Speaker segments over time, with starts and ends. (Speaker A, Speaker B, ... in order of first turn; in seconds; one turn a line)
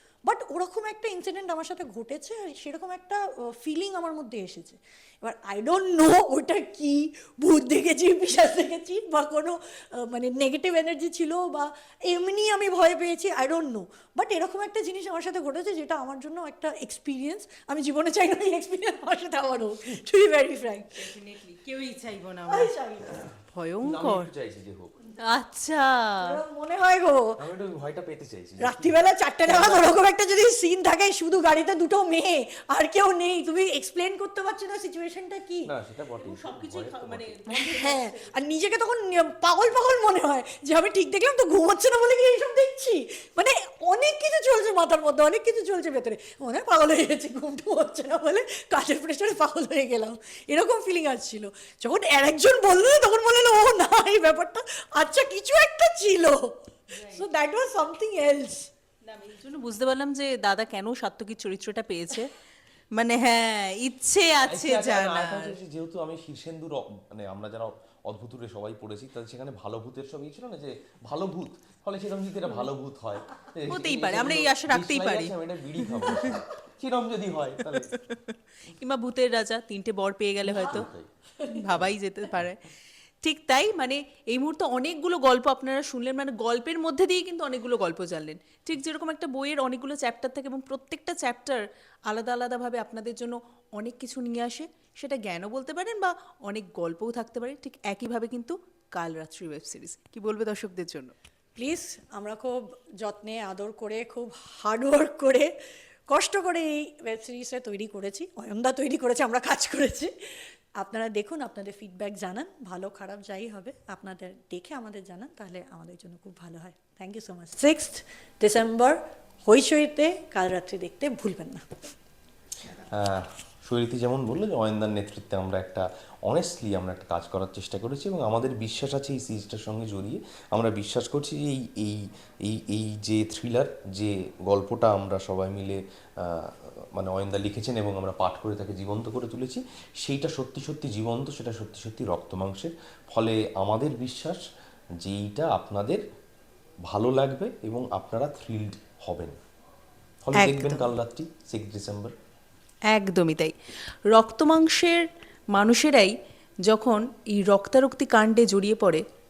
Speaker A: 0.2-21.1
Speaker B: 21.0-22.7
Speaker A: 22.5-23.3
Speaker B: 23.4-24.3
Speaker C: 23.8-24.9
Speaker B: 25.2-26.4
Speaker A: 26.2-27.4
Speaker C: 27.4-29.9
Speaker A: 28.6-35.7
Speaker C: 35.7-37.4
Speaker B: 36.2-38.3
Speaker A: 37.5-58.7
Speaker B: 56.9-57.2
Speaker B: 59.0-62.3
Speaker B: 62.9-65.6
Speaker C: 64.4-77.9
Speaker B: 73.7-76.4
Speaker B: 77.7-80.9
Speaker C: 80.5-81.1
Speaker B: 81.5-82.6
Speaker B: 83.2-101.1
Speaker A: 101.6-105.5
Speaker A: 106.1-110.1
Speaker A: 110.8-121.7
Speaker C: 122.9-144.4
Speaker C: 145.0-146.0
Speaker C: 146.9-149.4
Speaker C: 150.2-152.2
Speaker B: 150.3-150.9
Speaker B: 152.9-153.5
Speaker B: 154.1-156.2
Speaker B: 156.7-159.0